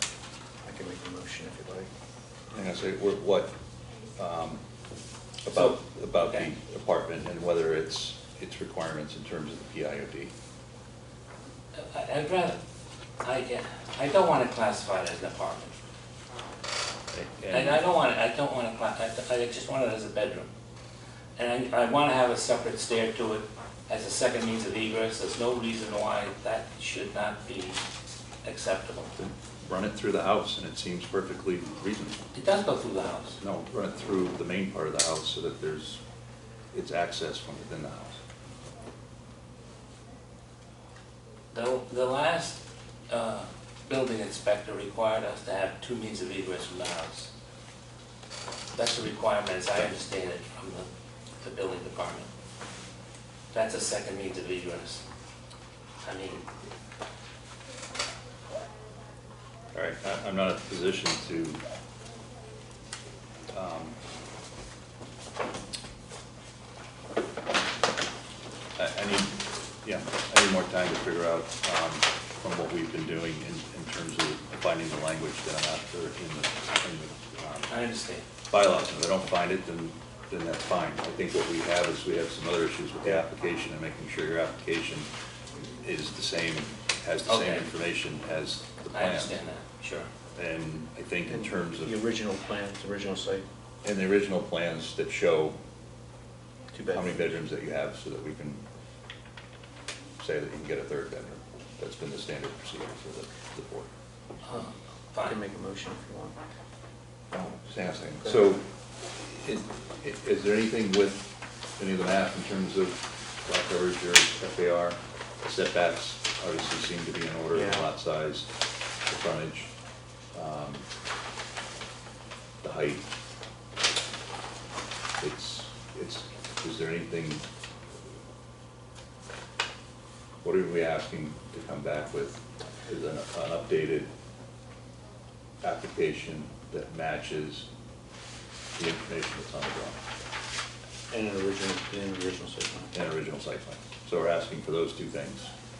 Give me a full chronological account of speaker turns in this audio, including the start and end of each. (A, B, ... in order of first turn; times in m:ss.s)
0:00.6-0:01.9 A
0:02.5-0:03.5 B
0:04.2-0:04.6 B
0:05.4-0:10.3 B
0:05.5-0:06.5 C
0:11.8-0:12.6 C
0:13.2-0:15.7 C
0:17.1-0:17.8 B
0:17.5-0:20.5 C
0:21.4-0:27.8 C
0:28.4-0:29.1 C
0:29.2-0:32.2 B
0:32.3-0:33.4 C
0:33.4-0:36.0 B
0:36.7-0:38.2 B
0:41.5-0:42.6 C
0:43.1-0:47.3 C
0:48.8-0:50.8 C
0:51.4-0:52.3 C
0:53.5-0:55.0 C
0:56.0-0:56.4 C
0:59.7-1:01.6 B
1:03.5-1:04.0 B
1:08.8-1:17.7 B
1:17.7-1:18.2 C
1:18.5-1:25.1 B
1:25.7-1:29.4 B
1:27.2-1:27.7 C
1:28.9-1:30.1 C
1:30.3-1:32.0 B
1:31.2-1:33.4 A
1:33.8-1:35.6 B
1:36.7-1:37.4 A
1:36.9-1:38.6 B
1:40.2-1:43.9 B
1:44.4-1:45.4 C
1:45.2-1:46.4 A
1:47.3-1:58.5 B
1:48.2-1:48.5 A
1:57.5-1:57.9 A
1:59.1-1:59.7 B
2:00.3-2:00.8 B
2:02.6-2:03.0 B
2:05.2-2:07.4 B
2:10.4-2:14.1 B
2:15.6-2:17.7 B
2:18.8-2:20.0 B
2:21.1-2:22.9 A
2:22.9-2:25.5 B